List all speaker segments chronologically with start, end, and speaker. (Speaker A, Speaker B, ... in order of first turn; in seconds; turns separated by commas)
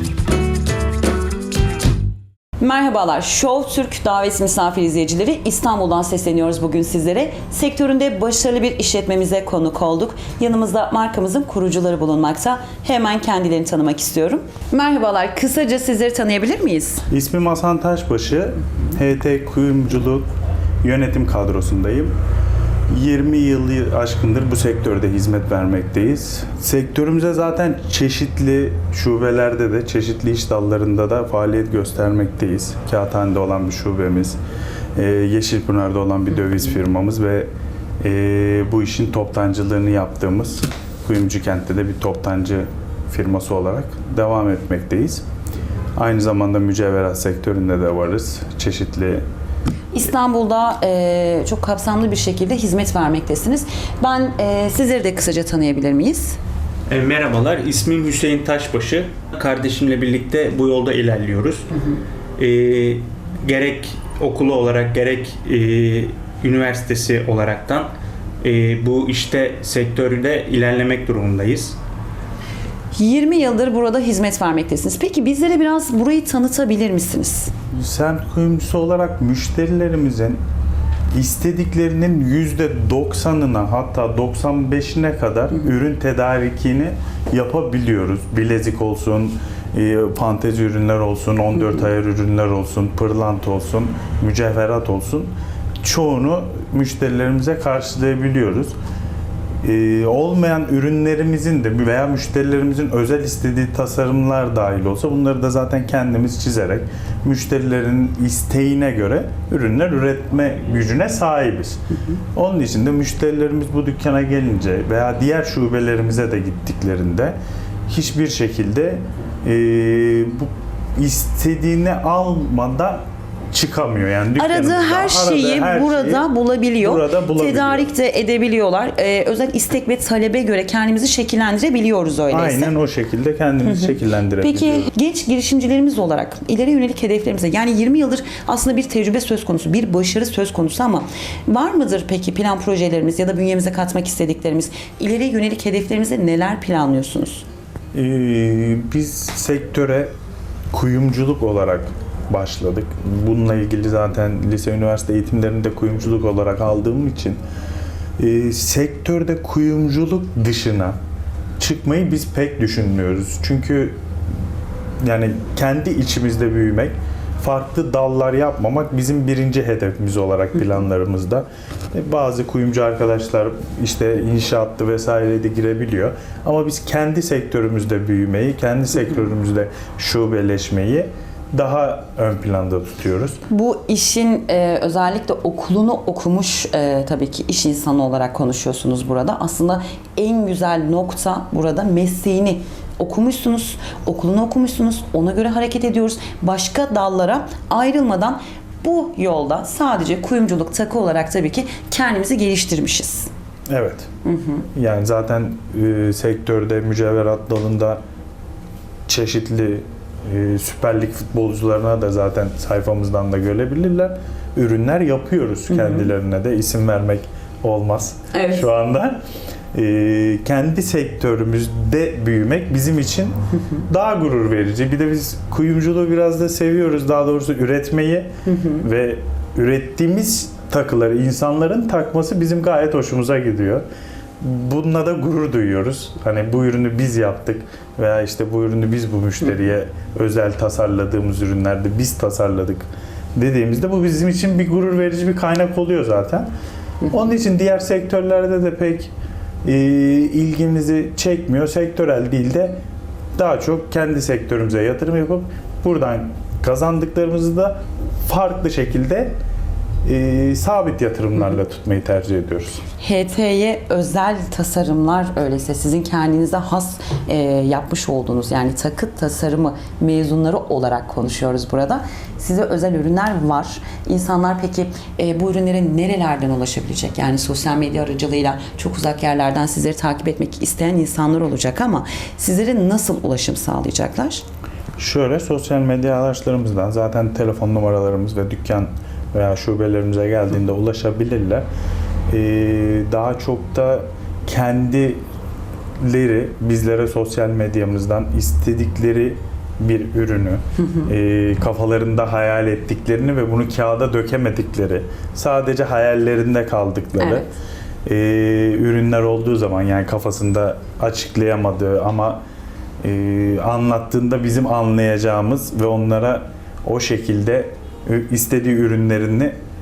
Speaker A: 2.6-17.0, Speaker B: 17.1-20.3, Speaker B: 20.8-22.1, Speaker B: 22.9-34.4, Speaker B: 35.0-37.5, Speaker B: 38.0-45.2, Speaker B: 46.0-49.2, Speaker A: 49.9-56.4, Speaker C: 56.9-61.7, Speaker C: 62.4-67.9, Speaker C: 68.4-71.8, Speaker A: 72.9-77.5, Speaker B: 77.7-80.4, Speaker B: 81.1-98.7, Speaker B: 99.6-111.8, Speaker B: 112.3-117.3, Speaker B: 117.9-126.2, Speaker A: 124.4-132.7, Speaker B: 126.8-127.9, Speaker B: 132.3-134.9, Speaker A: 133.7-147.4, Speaker B: 147.9-150.1, Speaker B: 150.7-157.4, Speaker B: 158.2-160.9, Speaker B: 161.6-163.9, Speaker B: 165.0-183.4, Speaker A: 183.5-203.3, Speaker B: 203.7-204.1, Speaker A: 204.2-204.6, Speaker B: 204.7-208.0, Speaker B: 209.1-219.2, Speaker A: 215.8-216.1, Speaker A: 218.3-218.7, Speaker B: 219.7-233.8, Speaker A: 228.5-228.8, Speaker B: 234.4-246.5, Speaker B: 247.1-249.1, Speaker B: 249.6-252.8, Speaker B: 253.3-259.3, Speaker B: 260.0-262.8, Speaker A: 263.0-284.4, Speaker B: 285.0-291.6, Speaker B: 292.3-295.2, Speaker B: 296.0-307.5, Speaker A: 307.2-307.5, Speaker B: 308.1-312.4, Speaker B: 313.0-319.5